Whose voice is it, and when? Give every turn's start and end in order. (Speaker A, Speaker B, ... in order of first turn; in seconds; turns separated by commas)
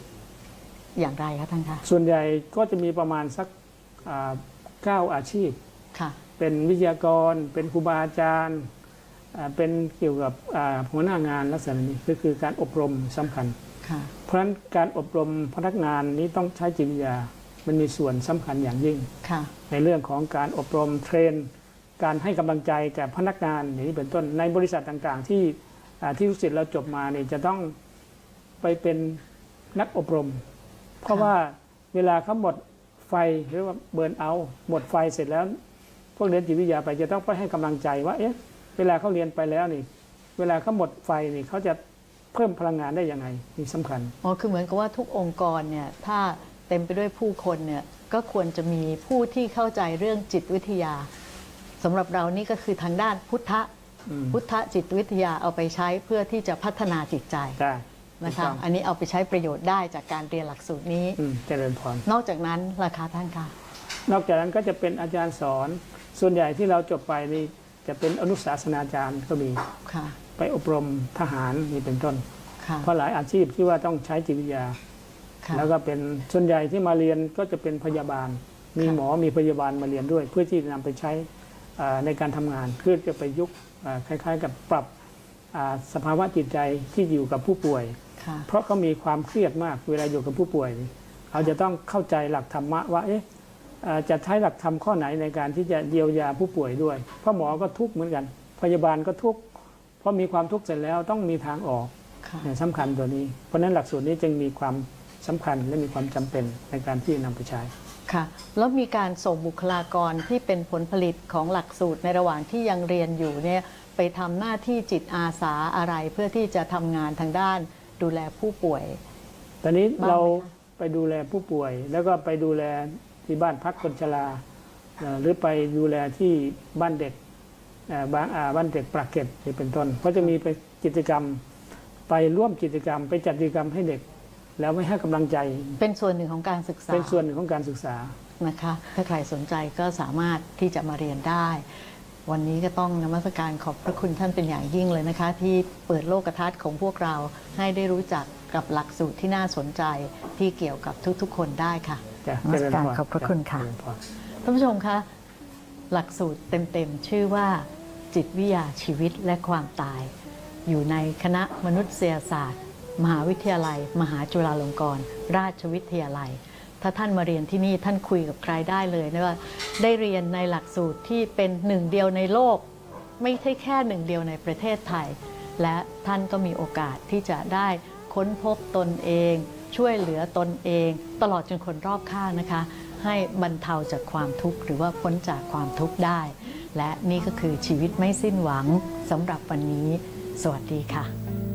Speaker A: 1.0-1.9, Speaker B: 1.8-3.5, Speaker B: 4.0-5.6, Speaker B: 6.4-8.7, Speaker B: 9.3-13.6, Speaker A: 13.8-14.1, Speaker B: 14.2-19.1, Speaker A: 19.2-19.5, Speaker B: 19.7-27.7, Speaker B: 28.6-29.2, Speaker B: 29.7-30.4, Speaker B: 31.0-35.5, Speaker B: 36.1-39.9, Speaker B: 40.4-41.8, Speaker B: 42.3-44.1, Speaker A: 44.2-51.1, Speaker A: 51.8-53.7, Speaker B: 54.1-54.4, Speaker A: 54.3-57.6, Speaker B: 57.6-58.6, Speaker A: 58.2-61.2, Speaker B: 61.2-62.0, Speaker A: 62.0-63.5, Speaker B: 64.1-69.6, Speaker A: 69.9-70.2, Speaker B: 70.4-72.2, Speaker A: 72.6-72.9, Speaker B: 72.8-74.8, Speaker A: 75.4-75.7, Speaker B: 75.5-84.9, Speaker B: 85.5-88.0, Speaker A: 88.2-88.5, Speaker B: 88.5-93.2, Speaker B: 93.8-99.5, Speaker B: 100.0-101.9, Speaker A: 102.2-102.5, Speaker B: 102.4-107.7, Speaker A: 108.1-119.0, Speaker B: 119.6-124.4, Speaker A: 120.0-120.5, Speaker B: 125.0-127.2, Speaker B: 127.9-131.4, Speaker B: 132.1-134.0, Speaker B: 134.6-135.8, Speaker A: 135.8-137.2, Speaker B: 136.9-138.1, Speaker A: 138.4-141.7, Speaker A: 142.2-153.7, Speaker B: 152.2-154.0, Speaker A: 154.4-155.1, Speaker A: 155.9-160.1, Speaker A: 160.7-172.7, Speaker A: 173.2-191.1